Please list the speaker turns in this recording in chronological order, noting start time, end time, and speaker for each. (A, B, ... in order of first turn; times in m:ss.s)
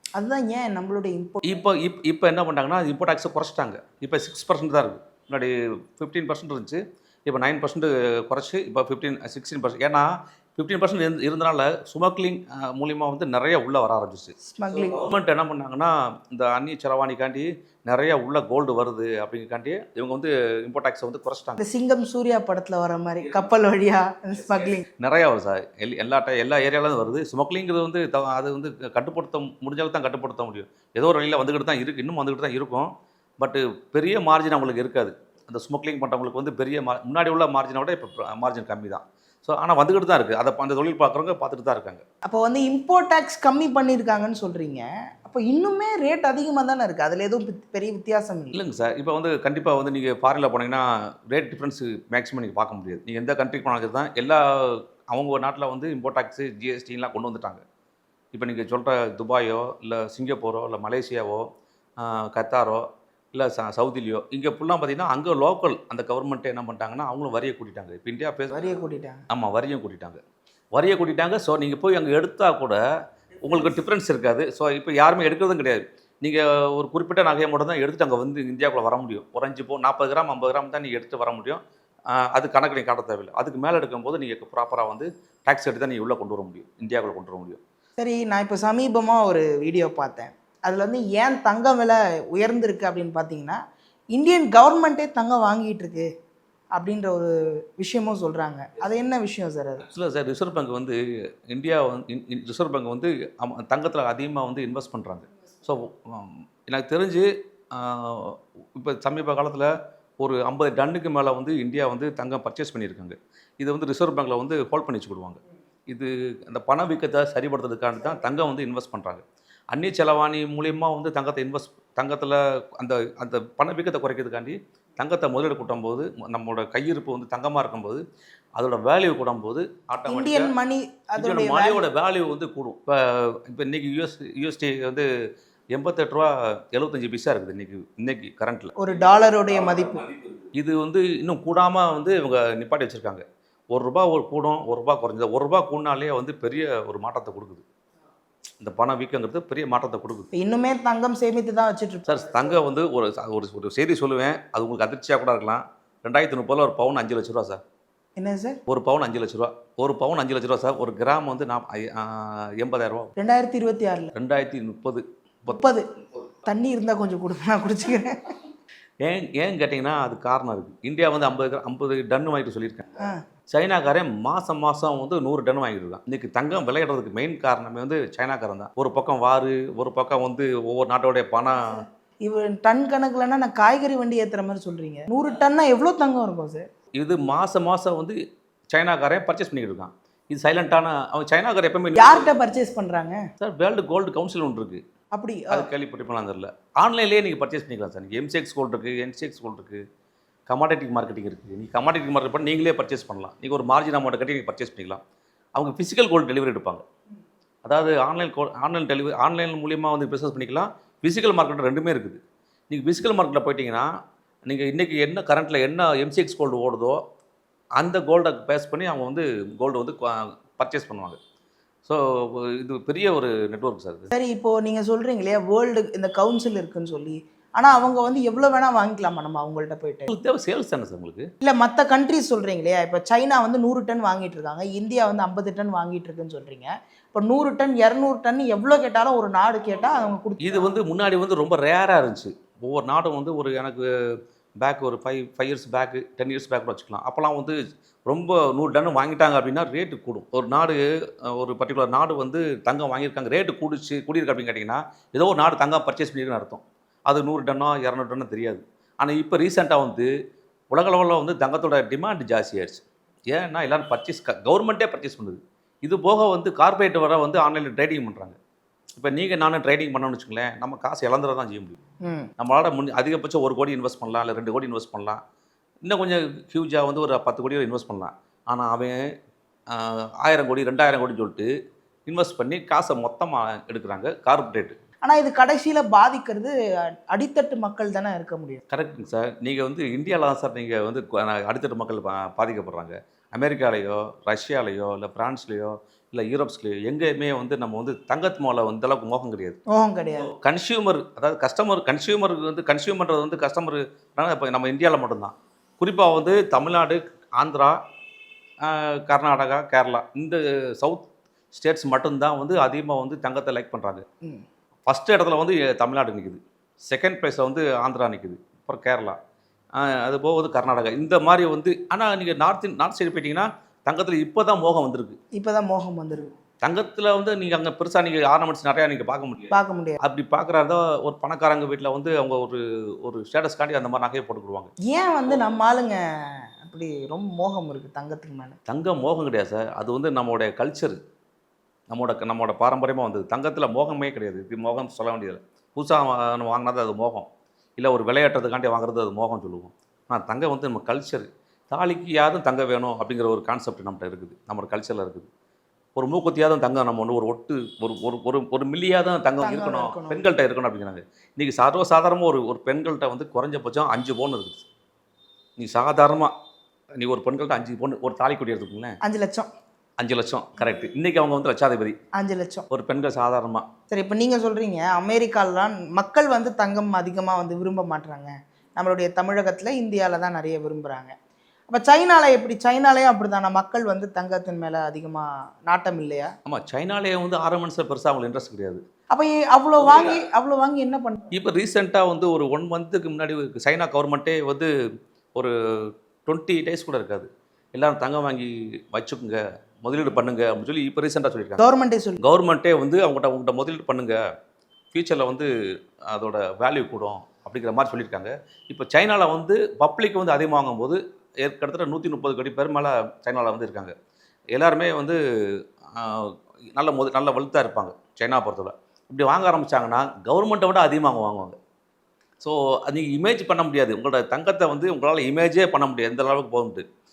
0:00.2-0:01.6 A
0:01.4-0:21.6 B
0:14.4-0:15.0 A
0:21.6-0:24.8 A
0:24.3-0:42.0 B
0:42.2-0:48.6 A
0:48.5-0:57.6 B
0:58.3-1:01.5 B
1:02.0-1:08.6 B
1:08.5-1:09.2 A
1:09.3-1:10.2 B
1:10.7-1:12.8 B
1:13.4-1:27.6 B
1:28.0-1:33.6 A
1:34.1-1:36.1 A
1:36.8-1:39.9 A
1:39.8-2:08.0 B
2:08.6-2:10.5 B
2:10.1-2:11.8 A
2:11.2-2:15.1 B
2:15.7-2:18.7 B
2:18.8-2:20.1 A
2:20.5-2:27.6 B
2:28.6-2:30.3 B
2:30.3-2:32.4 A
2:32.0-2:37.6 B
2:38.2-2:38.6 A
2:38.7-2:43.1 B
2:43.2-2:44.1 A
2:44.1-2:45.6 B
2:45.5-2:45.9 A
2:46.4-2:48.2 A
2:49.0-2:52.9 B
2:53.5-3:01.8 B
3:01.7-3:06.6 A
3:07.0-3:08.2 B
3:08.7-3:12.3 B
3:11.9-3:13.2 A
3:13.4-3:14.8 B
3:15.1-3:15.7 A
3:15.5-3:19.8 B
3:20.5-3:25.0 B
3:25.6-3:26.8 B
3:27.6-3:33.9 B
3:34.4-3:37.0 B
3:37.8-3:41.2 B
3:41.8-3:44.1 B
3:44.1-3:50.1 A
3:50.1-3:51.3 B
3:51.4-4:00.7 A
4:00.4-4:03.9 B
4:04.6-4:20.1 B
4:20.7-4:28.4 B
4:29.0-4:31.8 B
4:32.0-4:32.3 A
4:32.4-4:35.2 B
4:35.8-4:39.0 B
4:39.7-4:41.5 B
4:42.1-4:44.8 B
4:45.0-4:48.6 A
4:48.7-4:59.6 B
4:59.7-5:00.3 A
5:00.3-5:07.8 B
5:08.6-5:14.0 B
5:14.9-5:19.2 B
5:19.7-5:25.2 B
5:25.3-5:26.4 A
5:26.6-5:34.7 B
5:29.5-5:30.0 A
5:34.8-5:38.6 A
5:38.7-5:41.0 B
5:41.9-5:55.3 B
5:56.0-6:04.6 B
5:59.4-6:00.2 A
6:05.6-6:06.3 B
6:07.0-6:09.0 B
6:09.0-6:09.5 A
6:10.0-6:12.0 B
6:12.2-6:12.7 A
6:12.7-6:13.7 B
6:13.9-6:21.1 A
6:21.7-6:26.3 A
6:26.4-6:28.8 B
6:29.1-6:31.3 A
6:29.8-6:30.2 B
6:31.3-6:34.7 B
6:35.4-6:41.6 B
6:41.6-6:42.2 A
6:42.2-6:44.2 B
6:44.9-6:45.5 B
6:46.1-6:53.9 B
6:54.5-7:01.6 B
7:02.4-7:06.8 B